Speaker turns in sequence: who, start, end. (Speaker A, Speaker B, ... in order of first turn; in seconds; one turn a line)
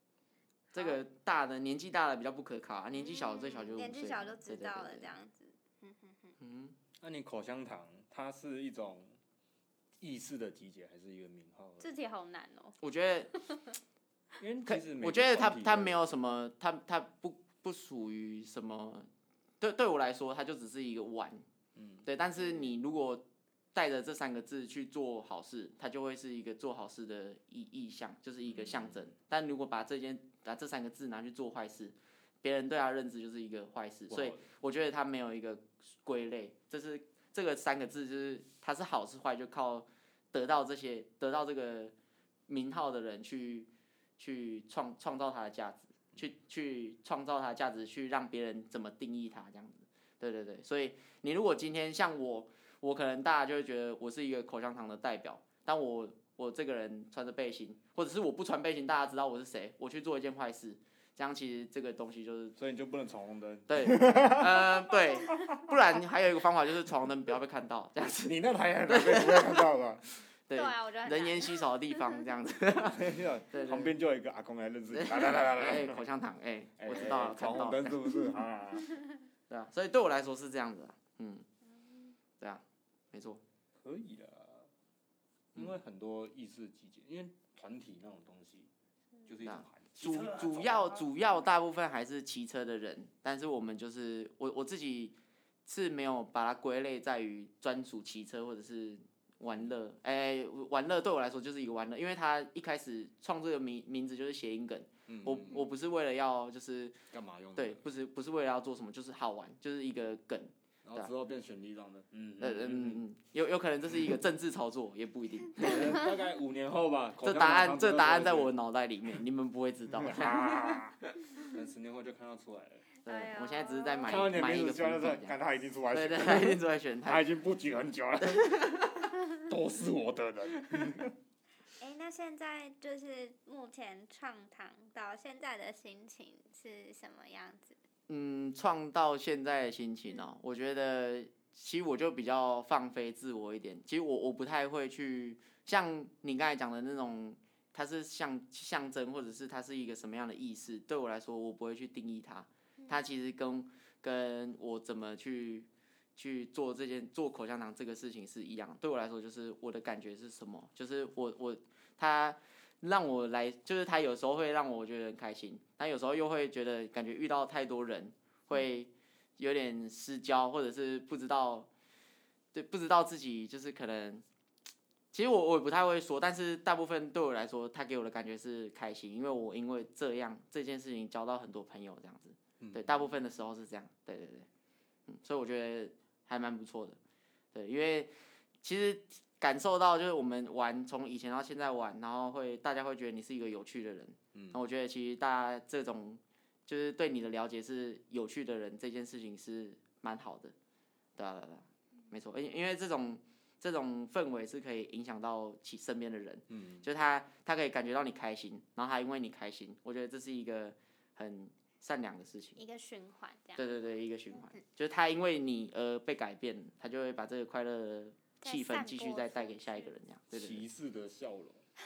Speaker A: 0.7-5.1
Speaker B: 3.0-6.3
Speaker A: 6.4-6.7
Speaker C: 7.0-9.1
Speaker C: 10.0-11.9
Speaker B: 11.8-12.8
Speaker A: 12.8-13.3
Speaker C: 14.4-16.1
Speaker A: 14.7-19.1
Speaker A: 19.6-21.4
Speaker C: 21.7-22.0
Speaker A: 22.0-41.9
Speaker B: 22.4-22.7
Speaker C: 28.4-29.0
Speaker C: 34.1-34.4
Speaker A: 42.5-62.5
Speaker C: 62.6-65.6
Speaker A: 63.7-68.3
Speaker C: 68.2-70.0
Speaker A: 68.9-69.7
Speaker A: 70.5-73.9
Speaker B: 70.5-72.2
Speaker C: 72.8-76.0
Speaker A: 74.9-78.1
Speaker C: 76.8-78.9
Speaker A: 79.5-81.5
Speaker A: 82.4-83.4
Speaker C: 83.8-84.7
Speaker C: 85.5-88.7
Speaker C: 89.2-91.1
Speaker A: 89.4-107.0
Speaker C: 105.1-105.6
Speaker C: 107.1-107.8
Speaker A: 107.5-111.1
Speaker C: 110.8-113.0
Speaker A: 112.4-116.0
Speaker C: 115.5-118.5
Speaker A: 117.2-120.8
Speaker C: 120.0-122.8
Speaker B: 123.0-124.2
Speaker A: 123.0-125.3
Speaker C: 124.0-131.1
Speaker A: 125.9-127.2
Speaker A: 128.2-129.1
Speaker B: 131.8-137.8
Speaker A: 138.1-171.7
Speaker A: 172.5-174.2
Speaker A: 175.1-184.5
Speaker C: 182.6-183.1
Speaker A: 185.1-187.0
Speaker A: 187.5-200.5
Speaker C: 194.3-194.6
Speaker A: 201.2-212.6
Speaker C: 206.5-206.8
Speaker B: 212.6-213.6
Speaker A: 213.6-220.6
Speaker B: 218.4-219.9
Speaker C: 220.3-221.6